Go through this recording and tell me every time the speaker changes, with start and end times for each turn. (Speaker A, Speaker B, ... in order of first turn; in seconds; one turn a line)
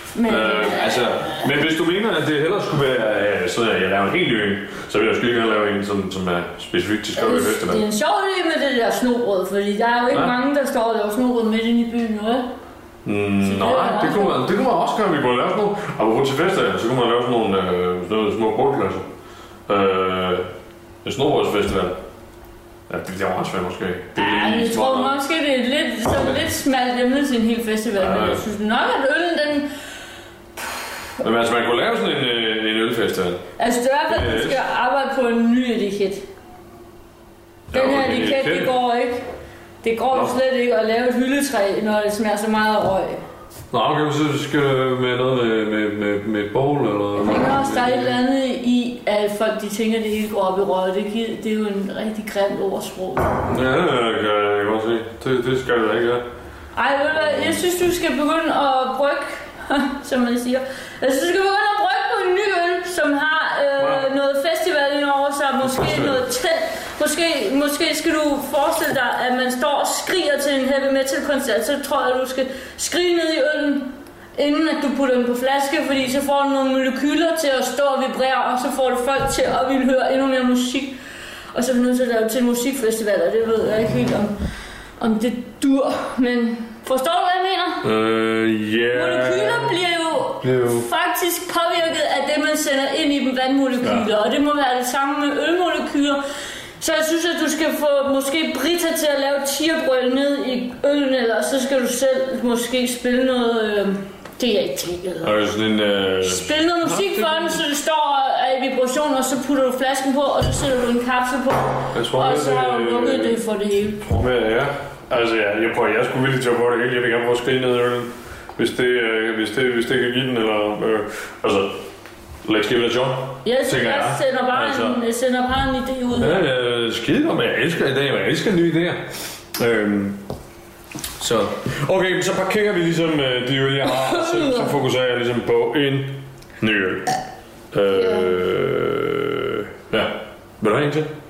Speaker A: 0.1-1.4
Speaker B: 0.2-7.8
Speaker A: 7.2-12.5
Speaker B: 10.1-10.4
Speaker B: 13.1-19.1
Speaker A: 13.4-14.4
Speaker B: 19.7-20.5
Speaker B: 21.0-22.0
Speaker B: 22.9-25.2
Speaker A: 24.2-29.7
Speaker B: 28.0-28.4
Speaker B: 31.2-33.4
Speaker A: 33.6-36.2
Speaker B: 34.1-34.6
Speaker B: 37.7-38.8
Speaker A: 37.7-39.2
Speaker A: 39.8-43.2
Speaker B: 43.7-48.2
Speaker A: 47.2-53.3
Speaker B: 53.5-56.2
Speaker A: 56.8-81.0
Speaker B: 57.2-57.6
Speaker B: 63.8-64.1
Speaker B: 65.6-66.2
Speaker A: 81.5-84.3
Speaker A: 85.0-87.9
Speaker B: 87.8-89.8
Speaker A: 88.9-96.2
Speaker B: 90.4-90.9
Speaker B: 93.8-94.1
Speaker A: 96.8-105.3
Speaker B: 105.2-107.6
Speaker A: 106.2-114.0
Speaker B: 111.9-113.4
Speaker B: 114.0-121.8
Speaker B: 122.5-125.0
Speaker A: 123.4-126.5
Speaker B: 126.2-130.2
Speaker B: 131.2-137.2
Speaker A: 133.8-134.7
Speaker B: 137.7-141.1
Speaker A: 137.9-138.3